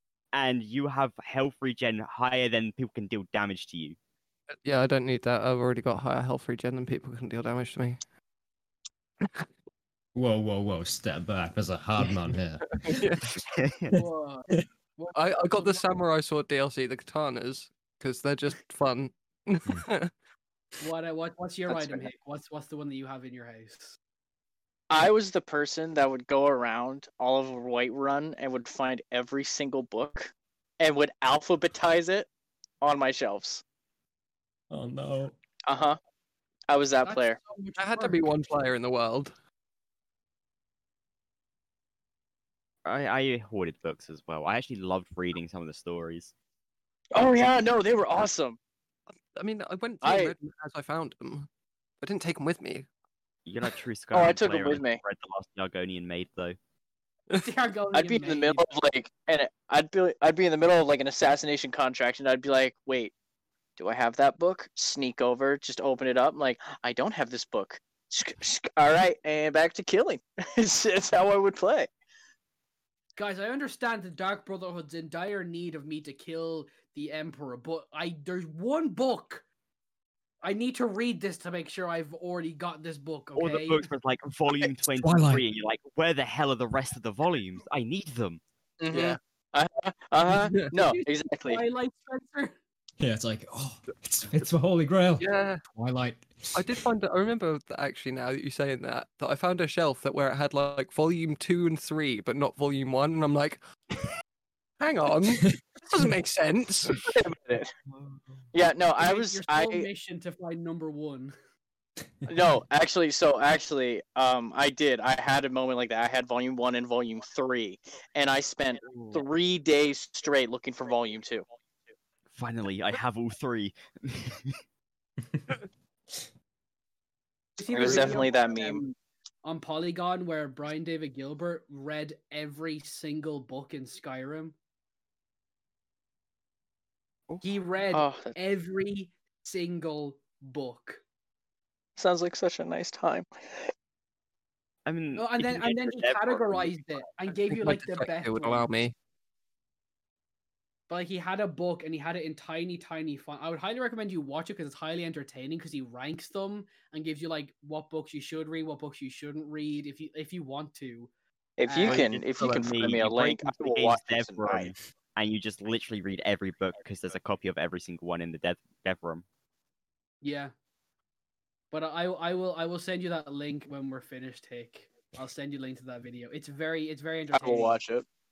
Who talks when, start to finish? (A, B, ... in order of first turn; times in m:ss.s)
0:00.3-0:04.0 A
0:04.6-0:08.0 B
0:10.1-0:13.0 C
0:12.6-0:13.4 B
0:13.4-0:13.9 A
0:13.9-0:14.6 C
0:13.9-0:15.9 D
0:15.1-0:20.1 B
0:20.8-0:24.0 D
0:21.7-0:22.1 E
0:24.9-0:32.3 E
0:32.8-0:33.6 E
0:34.7-0:35.4 C
0:35.7-0:36.0 E
0:36.7-0:37.4 E
0:37.0-0:38.2 D
0:37.8-0:39.3 B
0:42.8-0:46.3 A
0:47.1-0:48.6 E
0:49.3-0:51.5 B
0:50.0-0:50.4 E
0:52.0-0:52.9 B
0:53.4-0:56.6 A
0:54.1-0:55.0 E
0:57.4-0:58.7 D
0:57.9-1:03.1 E
1:03.8-1:11.9 E
1:13.2-1:19.4 D
1:20.4-1:23.8 D
1:23.3-1:28.4 A
1:24.9-1:25.4 C
1:28.8-1:31.6 E
1:28.9-1:29.2 B
1:30.2-1:30.8 B
1:30.7-1:32.5 D
1:33.0-1:36.8 C
1:35.2-1:35.6 B
1:36.5-1:43.6 B
1:44.8-1:47.1 B
1:47.0-1:47.7 E
1:48.5-1:49.9 E
1:49.0-1:51.3 D
1:52.3-2:01.4 E
1:58.9-1:59.2 A
2:02.3-2:04.5 A
2:07.6-2:14.5 D
2:07.7-2:08.8 E
2:17.4-2:21.0 D
2:17.9-2:18.3 E
2:22.0-2:23.7 E
2:24.8-2:26.8 A
2:25.2-2:28.7 D
2:27.4-2:28.9 B
2:30.9-2:41.1 D
2:41.6-2:44.7 E
2:41.6-2:42.0 D
2:41.8-2:49.2 A
2:50.2-2:50.5 D
2:51.7-2:57.8 D
2:57.3-2:58.0 E